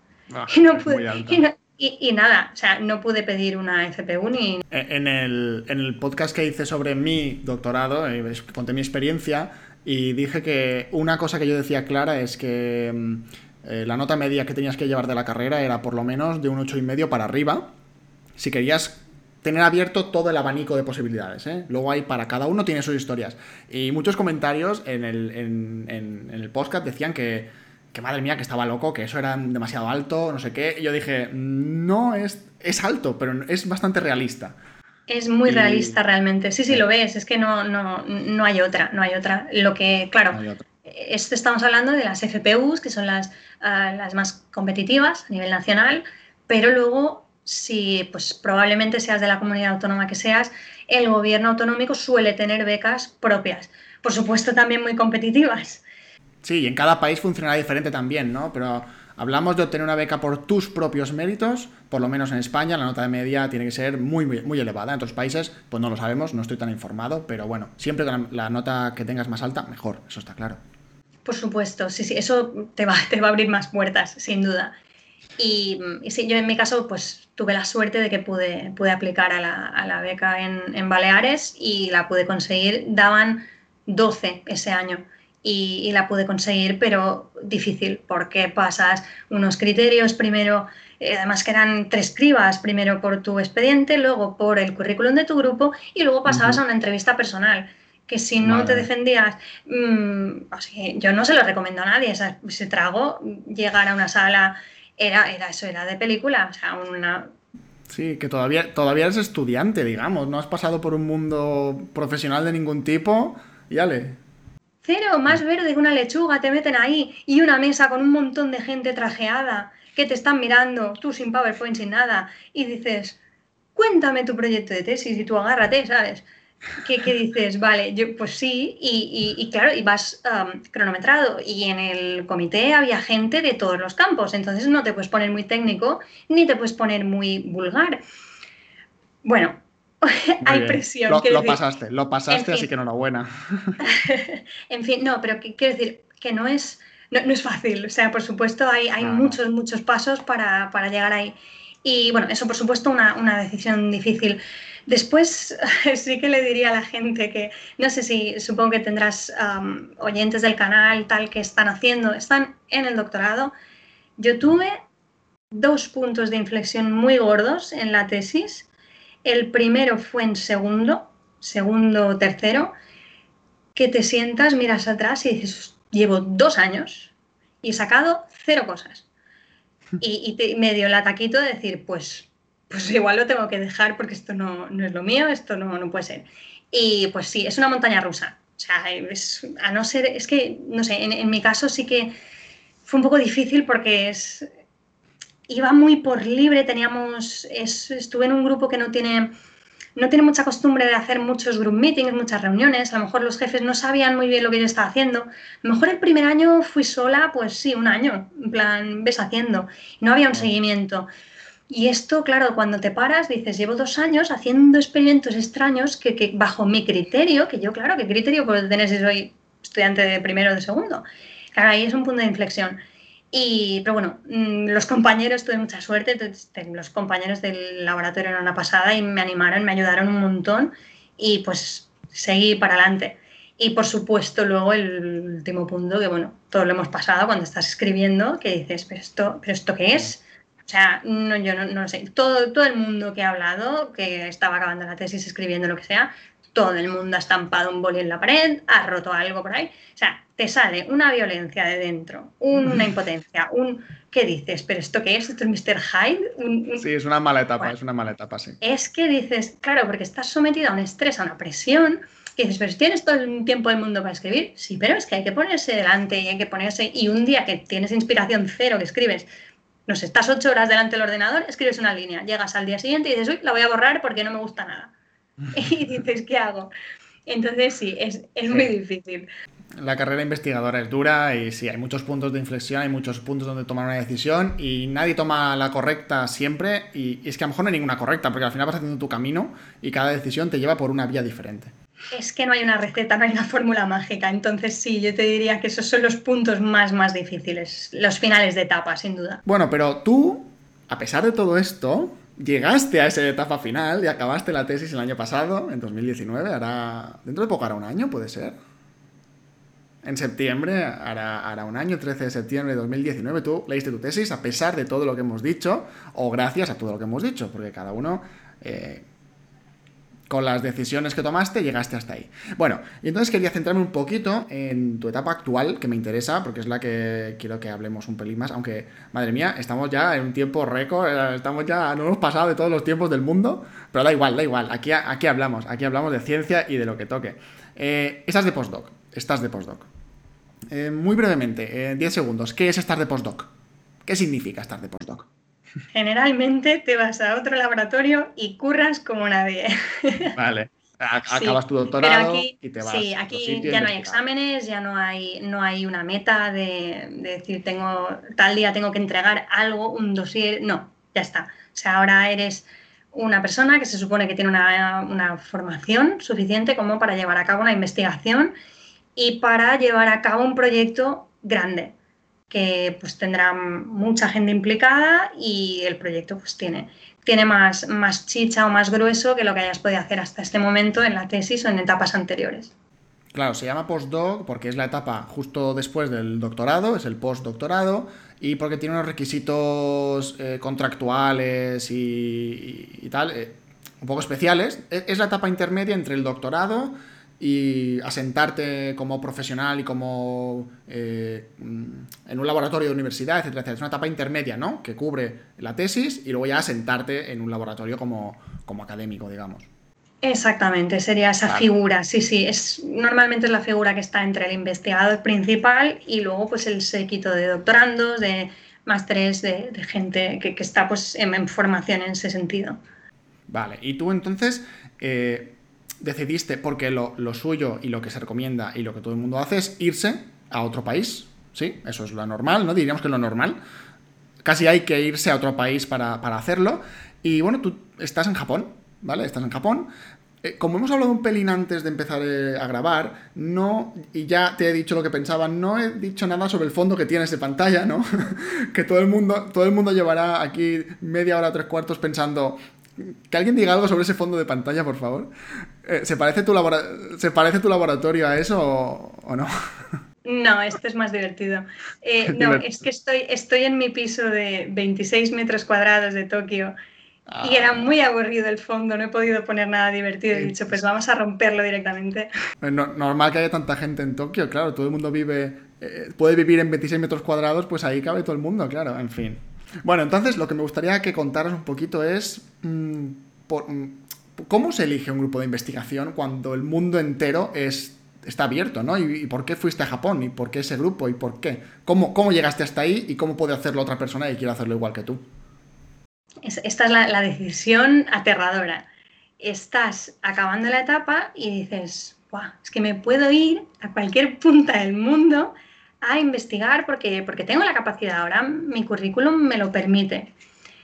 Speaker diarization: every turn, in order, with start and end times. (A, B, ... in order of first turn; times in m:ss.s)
0:00.3-0:01.4 A
0:00.5-0:04.6 B
0:04.7-0:17.7 A
0:18.4-0:34.5 A
0:35.1-0:55.8 B
0:35.5-0:36.0 A
0:40.3-0:40.7 A
0:56.4-1:10.6 A
1:11.2-1:14.7 B
1:15.4-1:47.3 B
1:36.3-1:36.6 A
1:38.4-1:38.9 A
1:47.9-1:54.2 A
1:54.8-2:03.2 B
2:03.8-2:06.2 B
2:06.8-2:18.0 B
2:19.2-2:21.6 B
2:20.4-2:23.8 A
2:22.3-2:22.7 B
2:23.8-2:43.5 B
2:29.0-2:29.4 A
2:44.2-2:44.7 B
2:45.5-2:48.7 B
2:49.2-2:52.7 B
2:53.7-2:59.0 B
3:00.0-3:12.1 B
3:12.8-3:14.5 B
3:15.5-3:19.3 B
3:20.0-3:31.1 B
3:31.7-3:42.8 B
3:43.3-4:16.8 B
4:16.8-4:18.6 A
4:18.6-4:29.3 B
4:29.9-4:34.9 B
4:35.5-4:36.7 B
4:37.2-4:39.3 B
4:39.8-4:51.7 A
4:52.1-4:59.4 B
4:59.4-5:08.5 A
5:10.0-5:19.0 A
5:20.3-5:39.9 A
5:40.7-5:43.5 A
5:44.0-5:45.3 A
5:45.9-5:50.3 B
5:50.3-5:54.2 A
5:51.3-6:08.5 B
6:09.2-6:11.9 B
6:12.5-6:22.7 B
6:23.3-6:49.7 A
6:50.2-7:02.8 B
7:03.5-7:13.6 A
7:14.4-7:19.9 A
7:20.4-7:35.3 A
7:35.8-7:39.5 A
7:40.2-7:46.7 B
7:42.2-7:42.7 A
7:47.3-7:47.9 A
7:47.4-7:52.3 B
7:50.3-7:50.8 A
7:52.6-8:15.2 A
8:16.4-8:18.8 B
8:19.4-8:30.3 B